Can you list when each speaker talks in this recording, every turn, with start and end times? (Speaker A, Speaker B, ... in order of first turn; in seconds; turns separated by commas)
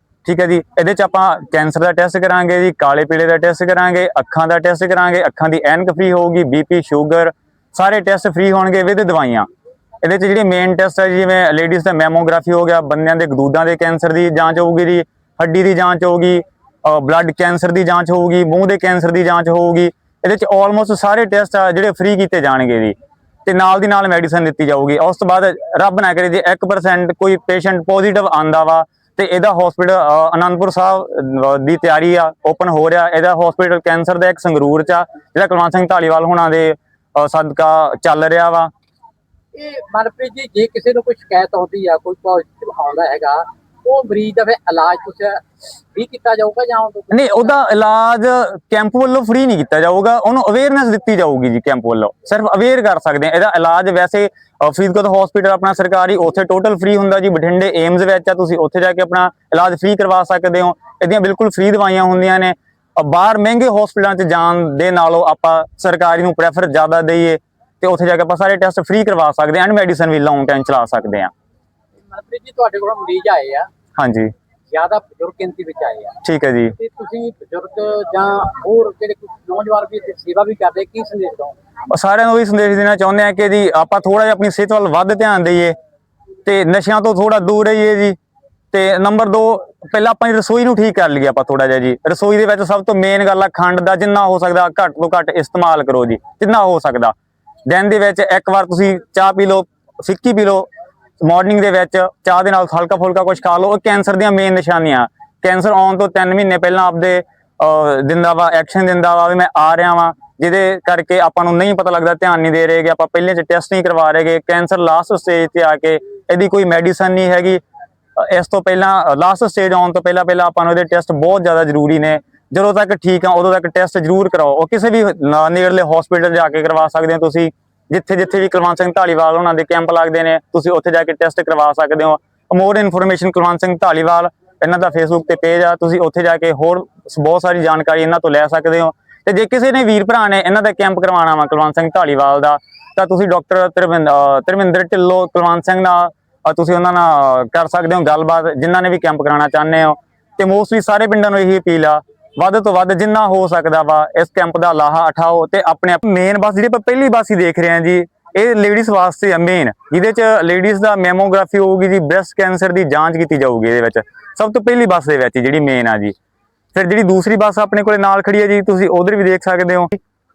Speaker A: 0.2-9.5, Speaker A: 10.0-22.9, Speaker A: 23.4-38.7, Speaker B: 39.5-47.6, Speaker A: 47.1-71.3, Speaker B: 72.1-73.7, Speaker A: 74.0-74.3, Speaker B: 74.7-76.1, Speaker A: 76.2-76.8, Speaker B: 76.8-81.5, Speaker A: 81.9-85.8, Speaker A: 86.4-88.2, Speaker A: 88.7-97.1, Speaker A: 97.7-100.7, Speaker A: 101.2-117.6, Speaker A: 118.2-166.1, Speaker A: 166.7-170.0